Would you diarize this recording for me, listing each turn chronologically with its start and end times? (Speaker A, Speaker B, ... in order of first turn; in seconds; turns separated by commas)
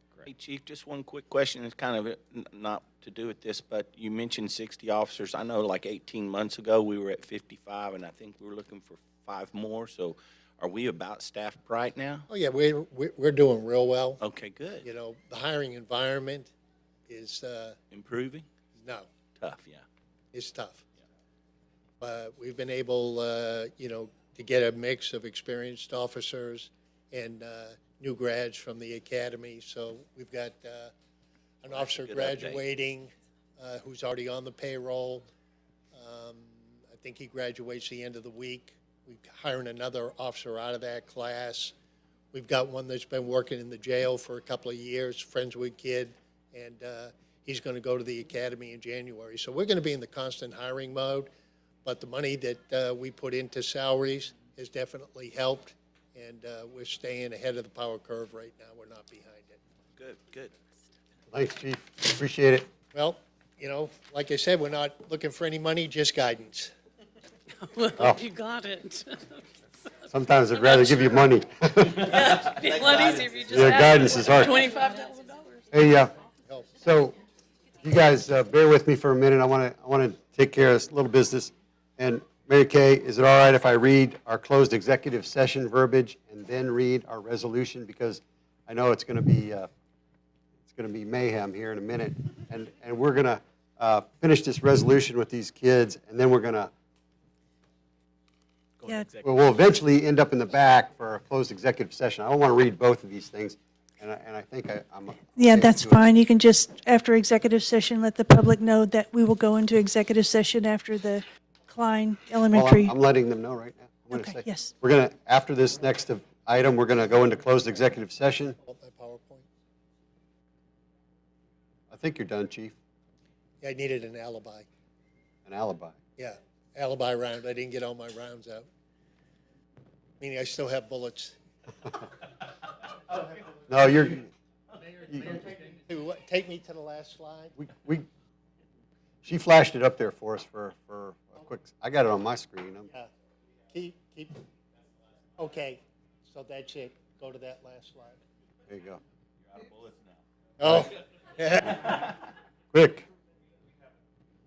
Speaker A: 0.2-12.3, Speaker B: 12.3-14.2, Speaker A: 14.2-14.8, Speaker B: 14.8-16.5, Speaker B: 17.1-17.8, Speaker A: 17.9-18.5, Speaker B: 18.8-19.1, Speaker A: 19.4-19.8, Speaker B: 20.3-20.8, Speaker B: 22.0-30.9, Speaker B: 31.6-35.3, Speaker A: 31.7-32.6, Speaker B: 35.9-41.7, Speaker B: 42.3-51.3, Speaker B: 51.9-59.6, Speaker A: 60.0-60.5, Speaker C: 61.3-62.7, Speaker B: 62.9-66.7, Speaker D: 67.6-69.4, Speaker C: 68.0-68.2, Speaker C: 70.1-72.5, Speaker D: 72.1-75.6, Speaker A: 72.2-74.4, Speaker C: 73.5-74.7, Speaker C: 75.7-76.1, Speaker C: 76.8-77.2, Speaker C: 77.8-89.7, Speaker C: 90.7-96.7, Speaker A: 98.8-99.1, Speaker C: 99.2-106.1, Speaker E: 105.4-112.9, Speaker C: 112.5-118.6, Speaker E: 114.1-114.7, Speaker B: 118.6-119.5, Speaker C: 121.9-122.7, Speaker B: 123.6-124.7, Speaker C: 125.5-126.0, Speaker B: 126.2-128.7, Speaker B: 130.2-131.4, Speaker C: 133.7-134.3, Speaker C: 135.1-135.4, Speaker B: 135.3-137.5, Speaker C: 137.6-138.1, Speaker C: 139.2-142.9, Speaker B: 143.7-144.4, Speaker B: 145.4-148.2, Speaker C: 148.7-149.0, Speaker A: 149.5-150.0, Speaker B: 150.6-152.1, Speaker C: 152.7-153.1